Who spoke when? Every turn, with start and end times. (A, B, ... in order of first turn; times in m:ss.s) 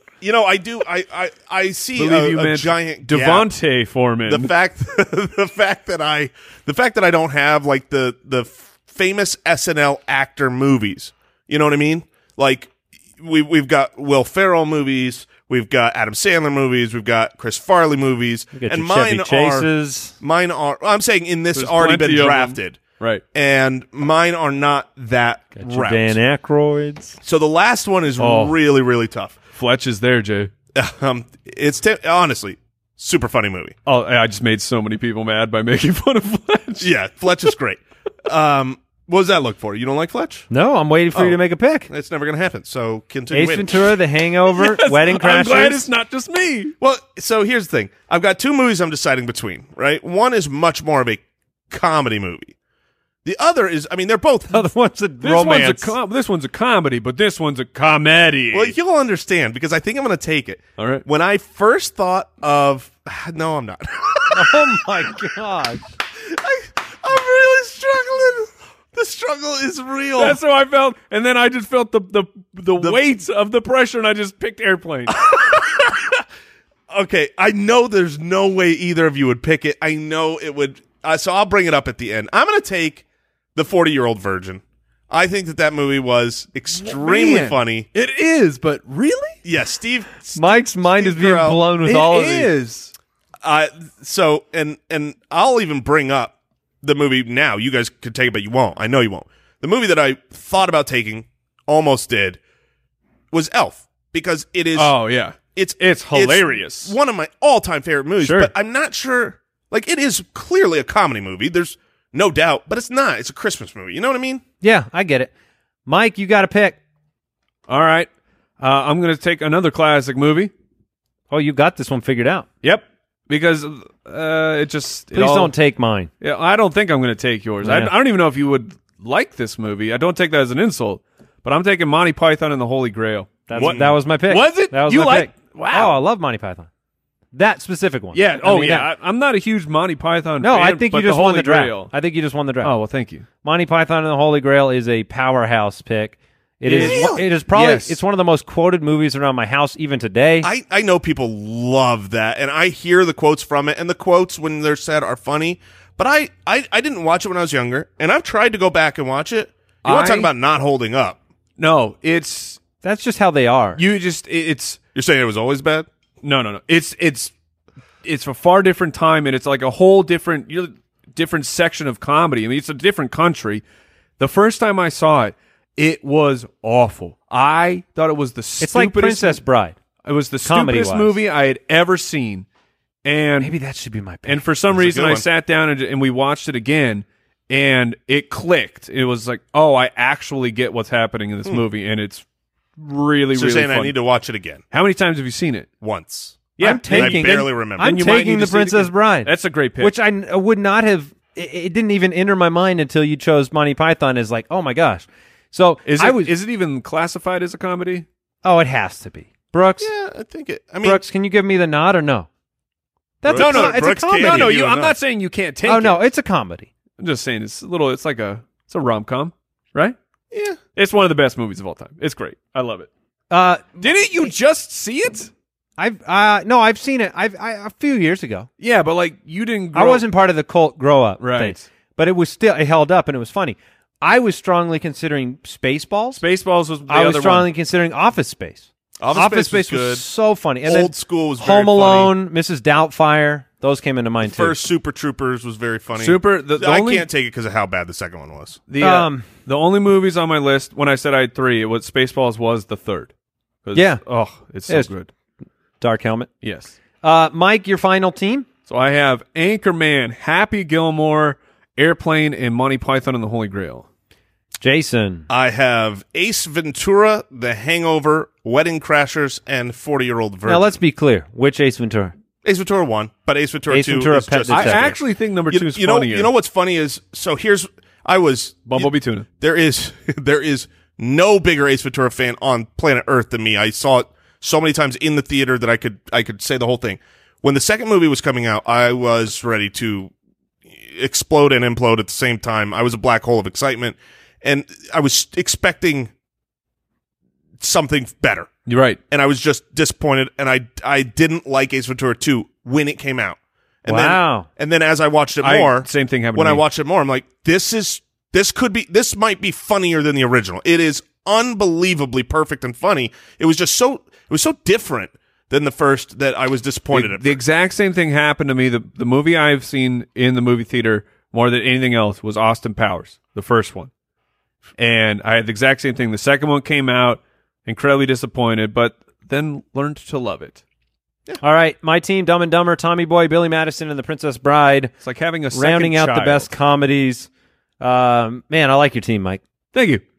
0:00.2-0:03.5 A
0:02.0-0:04.5 B
0:04.3-0:22.8 A
0:18.5-0:20.2 C
0:21.5-0:23.2 B
0:23.3-0:26.2 A
0:25.6-0:27.2 C
0:27.2-0:29.4 A
0:28.2-0:28.6 B
0:29.5-0:30.5 B
0:30.7-0:33.7 A
0:33.8-0:36.9 B
0:36.8-0:40.5 A
0:40.5-0:41.9 C
0:41.9-0:43.8 A
0:43.3-0:45.8 C
0:44.5-0:46.7 B
0:46.8-0:52.5 A
0:53.2-0:54.6 A
0:54.5-0:55.9 C
0:55.2-0:58.7 B
0:58.5-1:04.7 A
1:00.8-1:01.0 B
1:04.3-1:05.9 C
1:06.2-1:10.4 A
1:10.2-1:15.2 B
1:15.1-1:16.2 A
1:16.9-1:23.0 A
1:23.5-1:27.9 A
1:26.7-1:29.4 B
1:29.4-1:31.6 A
1:30.4-1:32.5 C
1:31.8-1:32.9 B
1:33.4-1:42.4 A
1:43.3-1:44.9 A
1:44.7-1:46.9 B
1:45.5-1:54.4 A
1:48.2-1:48.5 B
1:54.6-1:55.3 C
1:55.8-1:56.8 C
1:57.7-1:58.1 B
1:58.6-2:00.5 B
2:01.3-2:02.5 C
2:02.6-2:05.5 B
2:05.1-2:06.1 C
2:06.2-2:16.0 B
2:07.6-2:07.9 C
2:13.5-2:16.7 C
2:17.3-2:18.9 C
2:18.1-2:21.9 B
2:20.4-2:22.7 C
2:22.6-2:23.2 B
2:23.4-2:30.5 C
2:26.6-2:28.0 B
2:26.8-2:27.2 A
2:30.4-2:41.2 A
2:39.8-2:40.3 B
2:41.6-2:42.6 B
2:42.8-2:43.8 C
2:43.8-2:44.8 B
2:44.9-2:45.9 A
2:46.2-2:47.3 B
2:48.0-2:53.6 B
2:54.2-2:59.4 B
2:58.6-2:59.8 C
3:00.0-3:02.4 B
3:00.4-3:01.2 C
3:03.0-3:03.5 B
3:03.4-3:04.4 C
3:04.2-3:12.2 B
3:04.7-3:05.2 A
3:12.8-3:14.0 B
3:13.3-3:14.6 A
3:14.7-3:15.7 B
3:15.8-3:17.9 A
3:16.6-3:19.9 B
3:16.6-3:26.3 C
3:25.8-3:28.0 B
3:28.4-3:29.9 C
3:29.8-3:31.0 A
3:30.8-3:32.3 C
3:33.2-3:34.5 C
3:33.2-3:35.0 A
3:33.3-3:36.1 B
3:35.6-3:36.7 C
3:37.0-3:40.0 B
3:40.3-3:40.6 A
3:40.7-3:42.9 B
3:43.3-3:44.3 C
3:43.8-3:45.3 B
3:45.8-3:48.5 C
3:48.6-3:50.0 B
3:49.7-3:56.2 C
3:51.2-3:51.6 B
3:56.1-3:57.5 B
3:56.9-4:04.6 C
3:59.0-4:00.0 A
3:59.1-3:59.9 B
4:00.6-4:02.1 A
4:04.2-4:08.6 A
4:06.0-4:07.1 B
4:08.7-4:13.1 B
4:08.8-4:09.3 C
4:13.6-4:15.1 B
4:13.7-4:14.0 C
4:15.8-4:16.3 C
4:16.4-4:16.7 B
4:17.0-4:18.5 C
4:18.7-4:23.8 B
4:24.6-4:25.3 C
4:25.3-4:30.7 A
4:30.4-4:32.1 C
4:32.4-4:50.1 A
4:33.7-4:34.9 C
4:34.5-4:36.3 B
4:38.7-4:39.2 B
4:50.8-4:56.1 A
4:57.6-4:58.5 A
4:58.6-4:59.0 B
4:59.1-5:17.4 A
5:03.8-5:04.5 C
5:05.4-5:06.6 B
5:16.9-5:23.9 B
5:24.8-5:30.6 B
5:31.4-5:34.9 C
5:35.0-5:36.5 B
5:35.5-5:39.4 C
5:39.7-5:40.0 B